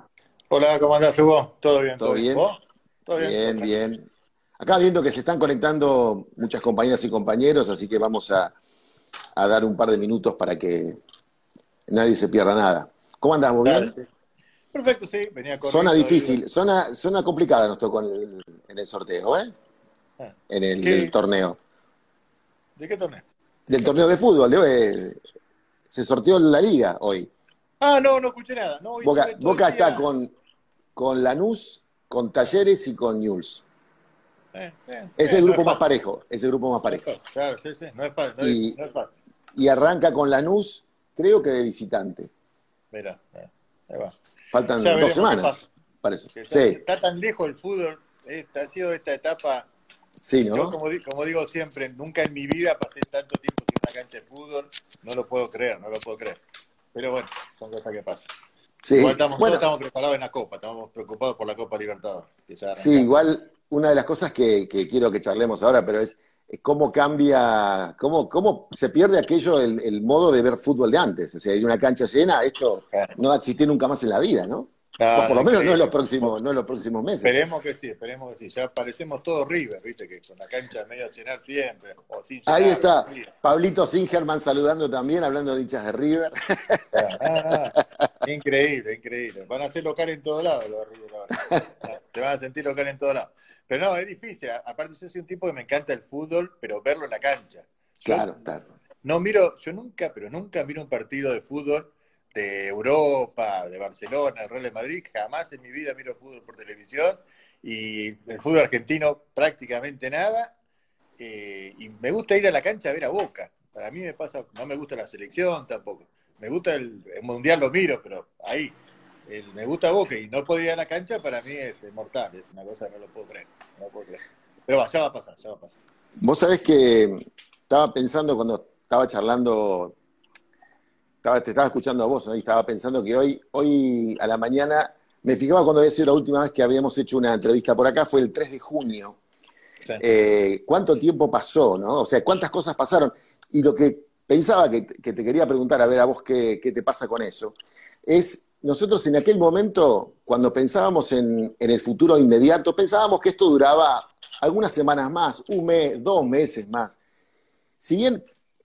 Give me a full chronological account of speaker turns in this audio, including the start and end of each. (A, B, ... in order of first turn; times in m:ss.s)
0:00.5-0:03.8 A
0:02.0-0:02.4 B
0:03.2-0:04.1 B
0:04.6-0:08.5 B
0:09.4-0:11.0 B
0:11.9-0:13.9 B
0:13.6-0:14.0 A
0:14.7-0:16.4 A
0:15.6-0:19.5 B
0:20.2-0:21.1 A
0:20.5-0:21.6 B
0:22.8-0:23.2 A
0:23.7-0:25.2 B
0:25.9-0:27.3 B
0:27.8-0:30.0 A
0:29.0-0:30.3 B
0:31.0-0:33.6 B
0:34.5-0:35.8 A
0:35.2-0:37.0 B
0:36.8-0:39.2 A
0:38.4-0:38.8 B
0:39.5-0:42.3 B
0:42.9-0:44.2 A
0:44.5-0:46.8 B
0:44.8-0:45.7 A
0:46.3-0:49.7 A
0:50.2-0:50.7 B
0:50.4-0:56.4 A
0:56.9-0:58.3 A
0:58.8-0:59.7 B
0:59.0-1:03.1 A
1:02.7-1:17.3 B
1:15.0-1:16.3 A
1:17.2-1:23.3 A
1:22.4-1:27.6 B
1:26.9-1:38.4 A
1:38.0-1:38.6 B
1:39.0-1:50.5 A
1:51.2-1:58.7 A
1:59.3-2:05.8 A
2:06.2-2:09.9 B
2:11.2-2:19.2 B
2:20.0-2:37.0 B
2:37.8-2:38.2 B